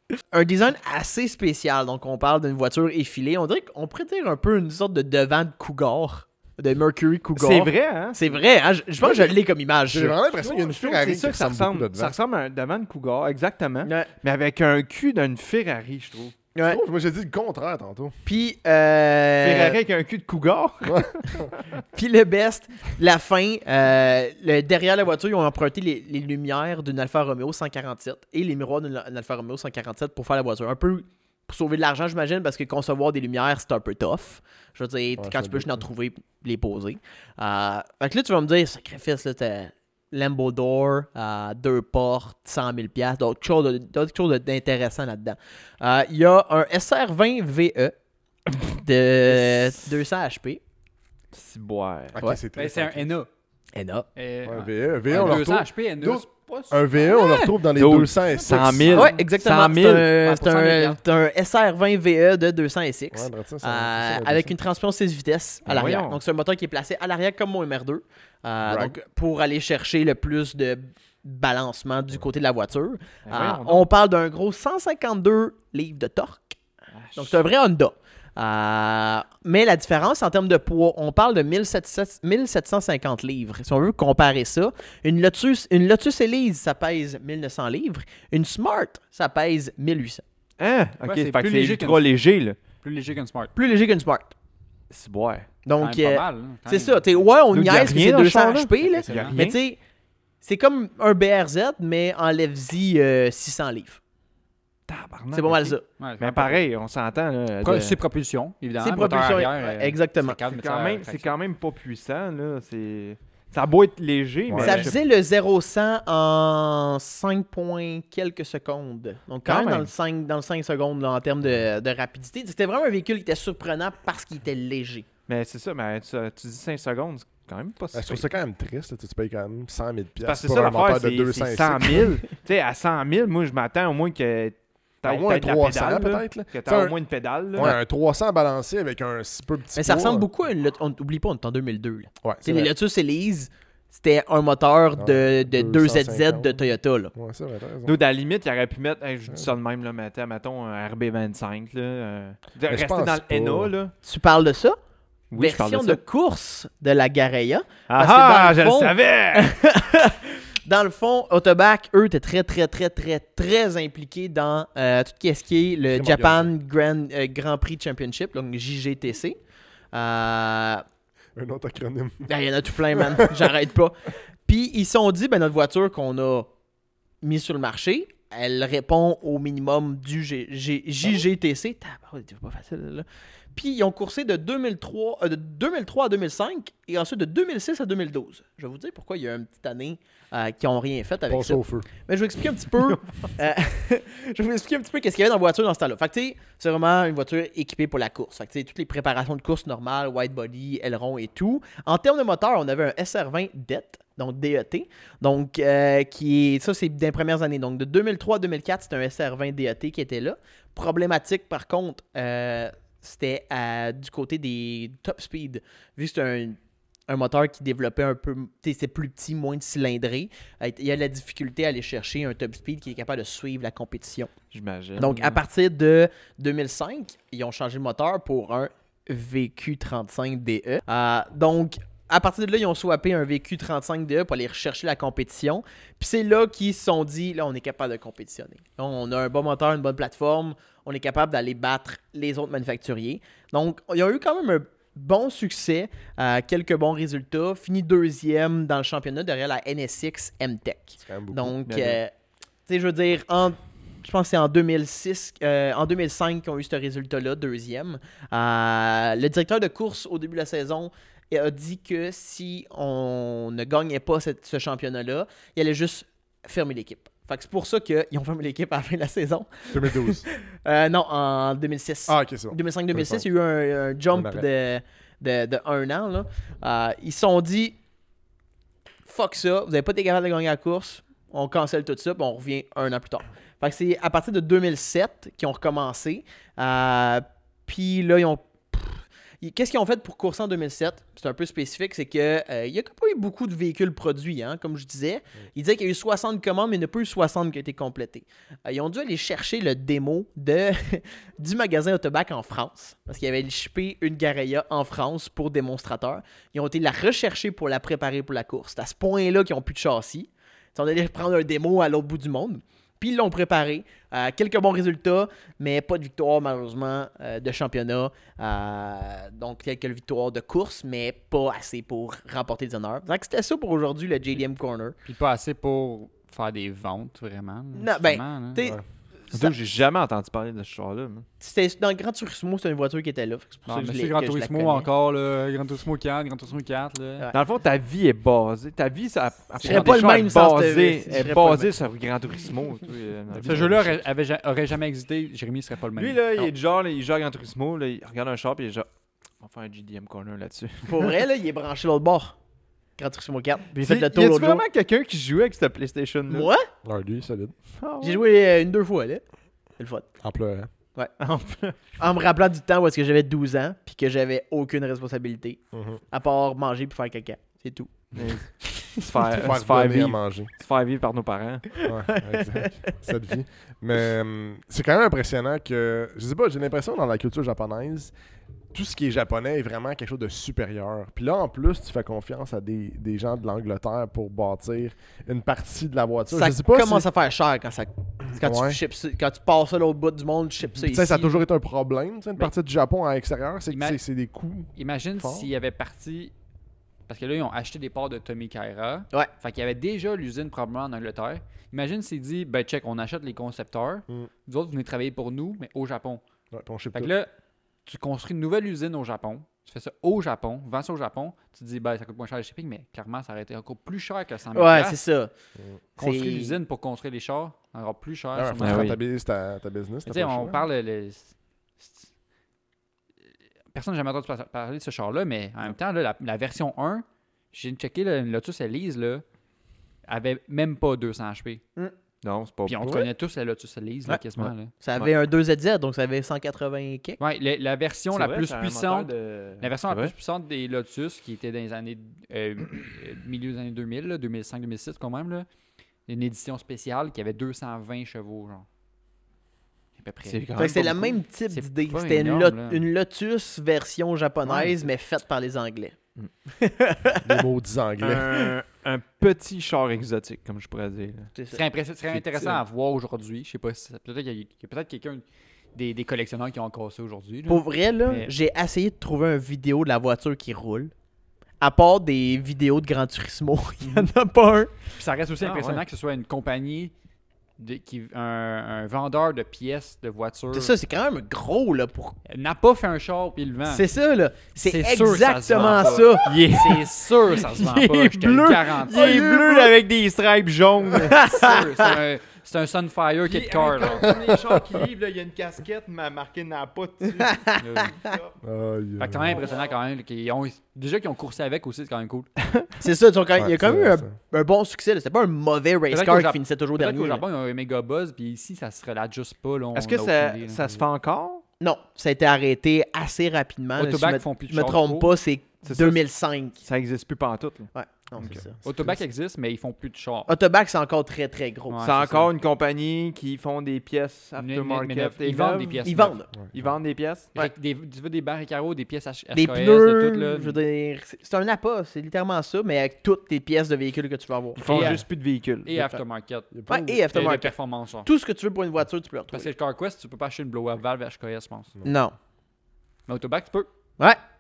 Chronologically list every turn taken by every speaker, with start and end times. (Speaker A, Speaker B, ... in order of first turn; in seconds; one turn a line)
Speaker A: 0.3-10.2
Speaker B: 7.4-8.4
Speaker C: 9.9-12.2
Speaker B: 10.4-16.3
Speaker A: 16.6-16.8
Speaker C: 16.6-18.1
Speaker A: 18.2-19.8
Speaker B: 19.4-21.6
Speaker C: 20.9-21.4
Speaker A: 21.9-47.9
Speaker C: 35.2-35.9
Speaker A: 48.5-50.6
Speaker B: 51.3-52.2
Speaker C: 52.1-53.1
Speaker D: 52.5-53.3
Speaker A: 53.7-54.1
Speaker D: 54.1-57.5
Speaker C: 54.5-59.1
Speaker B: 57.7-60.1
Speaker D: 58.3-59.2
Speaker A: 58.9-76.6
Speaker D: 60.2-61.0
Speaker C: 63.1-64.5
Speaker B: 65.7-66.2
Speaker C: 68.7-69.0
Speaker B: 73.3-73.9
Speaker B: 76.9-77.5
Speaker A: 77.2-90.2
Speaker B: 90.6-92.6
Speaker D: 91.0-92.1
Speaker D: 92.8-93.5
Speaker A: 93.5-94.3
Speaker B: 94.9-95.5
Speaker A: 95.7-99.8
Speaker D: 95.8-97.0
Speaker B: 97.5-99.6
Speaker D: 98.9-99.4
Speaker A: 100.4-104.0
Speaker B: 104.9-108.0
Speaker A: 105.3-105.8
Speaker D: 106.0-106.6
Speaker D: 107.6-111.4
Speaker A: 108.8-110.4
Speaker B: 110.5-115.0
Speaker C: 114.5-114.9
Speaker A: 114.6-125.1
Speaker B: 119.5-119.9
Speaker B: 125.3-128.3
Speaker C: 127.9-132.2
Speaker B: 130.2-137.8
Speaker C: 135.0-137.0
Speaker C: 137.6-140.3
Speaker A: 139.8-147.1
Speaker C: 142.2-142.7
Speaker C: 145.0-146.6
Speaker C: 147.1-148.0
Speaker B: 147.9-153.9
Speaker C: 152.7-153.7
Speaker A: 154.1-154.8
Speaker B: 155.3-156.0
Speaker A: 155.4-169.4
Speaker B: 157.9-159.6
Speaker C: 165.9-166.5
Speaker A: 169.9-170.8
Speaker C: 171.4-172.3
Speaker A: 172.3-176.5
Speaker C: 172.9-173.5
Speaker A: 177.2-224.3
Speaker C: 191.3-191.9
Speaker B: 192.8-193.3
Speaker B: 224.5-225.4
Speaker A: 225.0-252.1
Speaker C: 251.0-251.6
Speaker B: 251.7-252.0
Speaker A: 252.7-277.8
Speaker C: 269.7-270.3
Speaker C: 272.1-273.3
Speaker C: 274.1-274.5
Speaker A: 279.1-325.0
Speaker D: 325.1-328.6
Speaker A: 327.7-328.8
Speaker A: 329.3-329.6
Speaker B: 329.3-331.3
Speaker A: 331.4-334.9
Speaker D: 333.7-337.3
Speaker B: 337.3-344.0
Speaker A: 339.6-341.8
Speaker D: 339.6-340.1
Speaker D: 343.4-346.5
Speaker B: 346.0-348.9
Speaker B: 349.4-351.2
Speaker A: 350.9-352.4
Speaker A: 353.0-354.6
Speaker B: 353.8-356.5
Speaker A: 356.3-356.7
Speaker C: 356.9-357.6
Speaker B: 357.8-358.2
Speaker A: 358.0-359.2
Speaker A: 359.8-360.1
Speaker C: 360.2-360.7
Speaker B: 361.2-361.8
Speaker A: 362.0-365.6
Speaker C: 365.7-366.0
Speaker A: 366.1-369.1
Speaker B: 368.1-371.8
Speaker C: 369.4-370.5
Speaker A: 371.8-372.9
Speaker C: 371.9-378.1
Speaker C: 378.7-387.1
Speaker A: 386.3-391.4
Speaker C: 388.4-388.8
Speaker C: 390.8-395.5
Speaker D: 393.7-394.0
Speaker D: 394.8-396.3
Speaker D: 397.1-406.2
Speaker C: 406.5-407.1
Speaker D: 406.9-407.3
Speaker D: 407.9-415.0
Speaker A: 414.5-415.3
Speaker A: 416.0-416.6
Speaker D: 416.0-419.0
Speaker C: 418.4-420.6
Speaker B: 418.6-419.0
Speaker D: 420.1-422.1
Speaker D: 423.7-429.2
Speaker D: 430.1-431.6
Speaker B: 432.2-433.1
Speaker D: 432.7-434.7
Speaker B: 434.4-435.1
Speaker A: 434.8-437.2
Speaker D: 437.2-445.5
Speaker B: 438.1-440.1
Speaker D: 446.1-448.7
Speaker D: 450.0-450.4
Speaker B: 450.3-451.2
Speaker A: 450.6-456.0
Speaker D: 451.5-452.8
Speaker D: 454.5-454.9
Speaker A: 456.5-457.4
Speaker C: 457.2-458.3
Speaker B: 458.0-461.3
Speaker A: 461.4-461.6
Speaker D: 461.5-465.2
Speaker B: 462.1-462.6
Speaker D: 465.8-468.3
Speaker A: 467.5-470.9
Speaker A: 471.6-474.8
Speaker D: 475.0-476.9
Speaker B: 475.4-475.8
Speaker D: 477.6-480.7
Speaker A: 480.5-482.2
Speaker D: 482.3-483.9
Speaker A: 483.7-486.8
Speaker D: 484.6-489.1
Speaker B: 485.5-491.2
Speaker C: 488.9-489.7
Speaker A: 491.1-491.9
Speaker D: 491.1-494.2
Speaker B: 493.3-498.3
Speaker C: 494.1-494.6
Speaker A: 497.3-497.6
Speaker D: 497.6-498.0
Speaker C: 498.4-499.4
Speaker D: 499.0-502.3
Speaker A: 502.8-507.2
Speaker C: 503.4-504.1
Speaker D: 505.9-510.6
Speaker B: 509.8-511.4
Speaker A: 511.6-516.6
Speaker D: 513.8-515.1
Speaker B: 515.7-516.0
Speaker B: 516.6-517.7
Speaker A: 517.7-518.6
Speaker C: 518.2-518.9
Speaker D: 518.6-520.3
Speaker A: 520.3-522.3
Speaker D: 521.7-522.0
Speaker B: 521.8-526.0
Speaker D: 524.4-526.2
Speaker A: 525.8-526.3
Speaker C: 526.4-526.7
Speaker B: 526.5-527.3
Speaker D: 527.4-530.6
Speaker A: 529.3-535.0
Speaker B: 534.6-535.8
Speaker D: 534.6-535.1
Speaker D: 535.6-536.5
Speaker C: 536.5-537.1
Speaker A: 536.7-537.5
Speaker D: 537.1-538.1
Speaker A: 538.0-539.5
Speaker D: 539.3-541.7
Speaker A: 541.9-542.1
Speaker D: 543.1-543.7